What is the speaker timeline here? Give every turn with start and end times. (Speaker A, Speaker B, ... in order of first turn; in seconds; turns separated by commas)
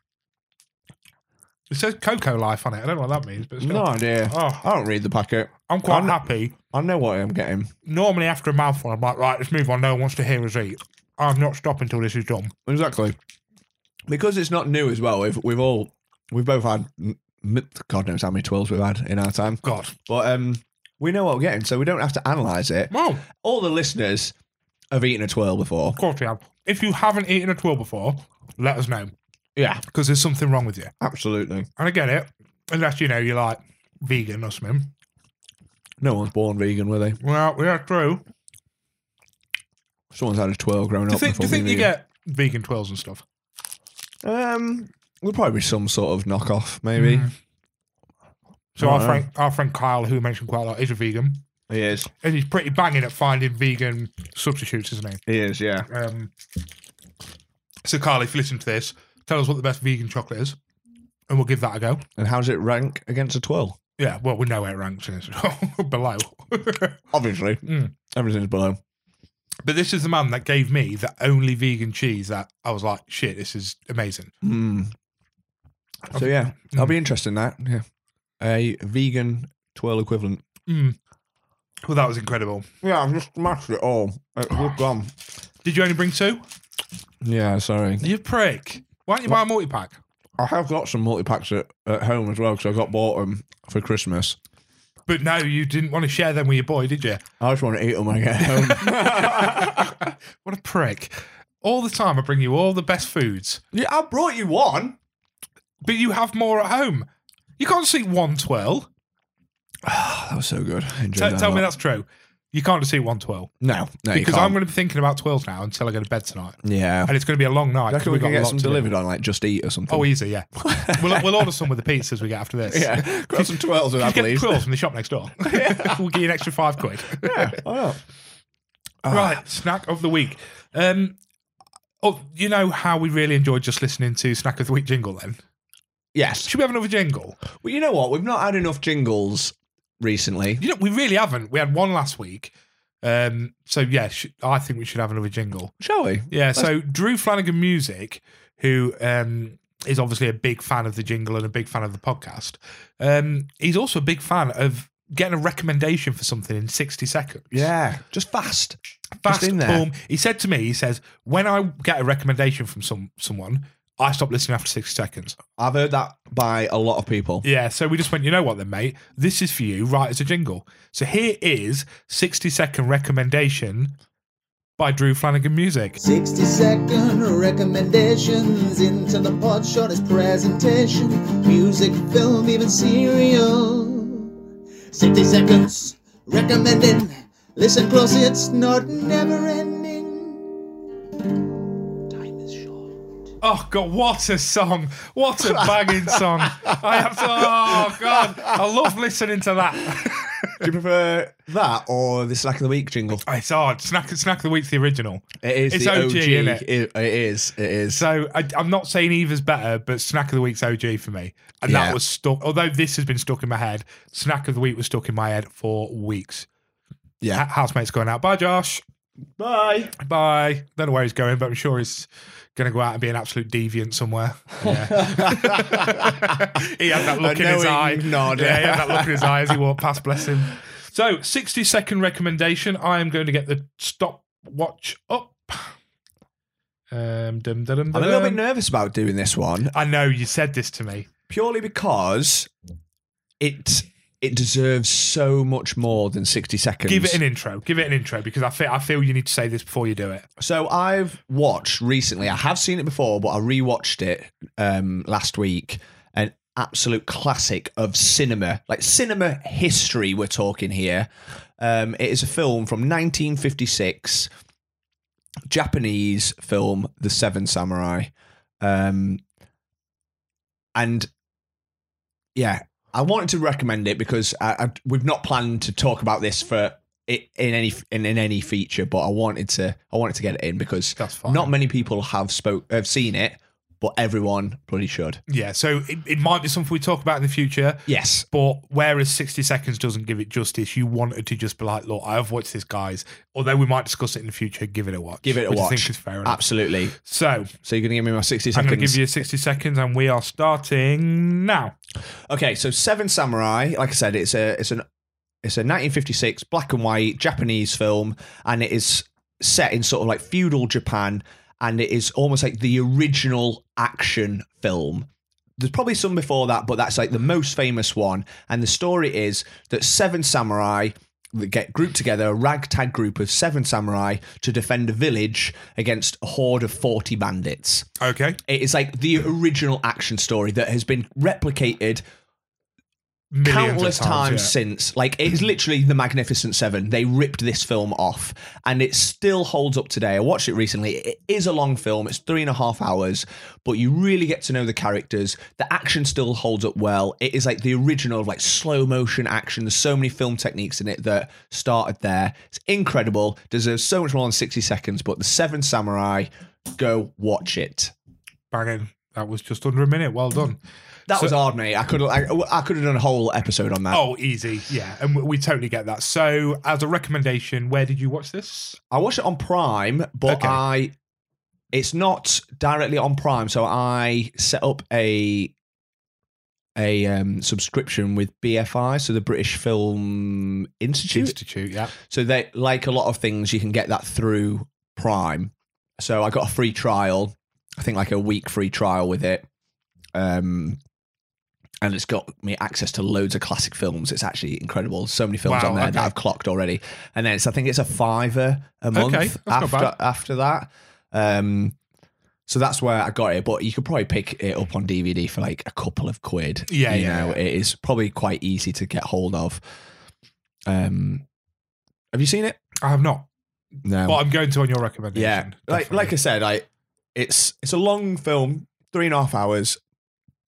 Speaker A: 1.7-4.6, Speaker B: 3.6-7.7, Speaker A: 5.7-6.5, Speaker A: 7.9-12.5, Speaker B: 12.7-13.2, Speaker B: 14.1-24.3, Speaker A: 19.6-19.9, Speaker A: 22.9-23.2, Speaker B: 24.9-26.0, Speaker A: 26.0-29.1, Speaker B: 29.6-29.8, Speaker A: 29.9-30.9, Speaker B: 31.0-31.7, Speaker A: 31.8-34.9, Speaker B: 36.0-37.2, Speaker A: 37.2-38.2, Speaker B: 40.1-41.9, Speaker A: 41.1-43.2, Speaker B: 44.2-47.3, Speaker A: 47.0-47.3, Speaker A: 48.8-51.4, Speaker B: 48.8-49.3, Speaker B: 51.7-52.1, Speaker A: 52.2-55.2, Speaker B: 55.3-55.9, Speaker A: 55.9-56.3, Speaker A: 57.9-60.6, Speaker A: 61.3-62.0, Speaker B: 62.2-63.8, Speaker A: 64.0-67.0, Speaker B: 67.1-68.8, Speaker A: 67.7-67.9, Speaker A: 69.7-74.3, Speaker B: 74.4-75.0, Speaker B: 76.1-77.8, Speaker A: 76.1-77.0, Speaker B: 78.4-80.4, Speaker A: 80.7-81.0, Speaker A: 81.8-82.7, Speaker B: 82.8-85.1, Speaker A: 85.6-86.4, Speaker B: 87.2-88.1, Speaker A: 88.0-90.0, Speaker B: 90.4-94.4, Speaker A: 95.1-97.2, Speaker B: 97.4-100.1, Speaker A: 98.6-103.6, Speaker B: 103.7-105.0, Speaker A: 105.8-107.1, Speaker A: 107.6-108.9, Speaker B: 109.8-111.7, Speaker A: 111.2-113.5, Speaker B: 113.6-114.6, Speaker A: 114.1-118.9, Speaker B: 116.6-117.1, Speaker B: 117.9-121.5, Speaker A: 119.9-127.6, Speaker B: 122.7-124.6, Speaker B: 125.5-126.0, Speaker B: 127.2-128.0, Speaker B: 129.0-129.4, Speaker A: 129.1-131.2, Speaker A: 132.0-135.4, Speaker B: 136.1-136.5, Speaker A: 136.4-137.4, Speaker B: 137.6-140.6, Speaker A: 140.6-145.7, Speaker B: 145.8-146.7, Speaker A: 146.3-157.7, Speaker B: 157.5-159.9, Speaker A: 159.2-165.4, Speaker B: 165.6-167.4, Speaker A: 167.4-173.9, Speaker A: 174.8-176.0, Speaker C: 176.0-184.3, Speaker C: 184.9-190.5, Speaker C: 192.1-192.7, Speaker A: 193.4-200.7, Speaker B: 195.4-198.5, Speaker B: 200.6-203.2, Speaker A: 203.3-206.7, Speaker B: 205.4-208.1, Speaker A: 207.9-216.5, Speaker B: 211.7-212.0, Speaker A: 217.3-218.8, Speaker B: 219.4-219.9, Speaker A: 220.0-235.7, Speaker B: 224.6-226.5, Speaker B: 227.2-229.6, Speaker A: 236.9-238.4, Speaker B: 237.9-239.7, Speaker A: 239.7-241.1, Speaker B: 241.3-242.5, Speaker B: 243.4-247.2, Speaker A: 246.9-250.2, Speaker B: 250.4-264.3, Speaker B: 265.5-269.2, Speaker B: 270.8-271.1, Speaker B: 272.4-285.2, Speaker A: 281.0-281.5, Speaker A: 285.3-297.5, Speaker B: 287.9-288.3, Speaker B: 295.2-296.9, Speaker B: 297.6-299.0, Speaker A: 298.5-301.7, Speaker B: 302.3-304.8, Speaker B: 305.4-327.9, Speaker A: 328.0-328.4, Speaker B: 328.5-332.0, Speaker A: 333.3-334.5, Speaker B: 333.4-357.9, Speaker A: 358.5-360.6, Speaker B: 361.1-364.0, Speaker A: 363.9-368.8, Speaker B: 368.9-370.9, Speaker A: 370.3-370.6, Speaker B: 371.7-375.5, Speaker B: 376.8-381.4, Speaker A: 381.1-381.9, Speaker B: 382.0-389.4, Speaker B: 390.1-390.8, Speaker B: 391.8-401.8, Speaker A: 395.4-396.1, Speaker A: 398.9-399.9, Speaker B: 402.5-409.6, Speaker A: 406.7-407.4, Speaker B: 410.7-411.2, Speaker B: 412.1-412.6, Speaker A: 412.8-413.3, Speaker B: 413.9-414.2, Speaker A: 414.0-416.1, Speaker B: 415.1-419.8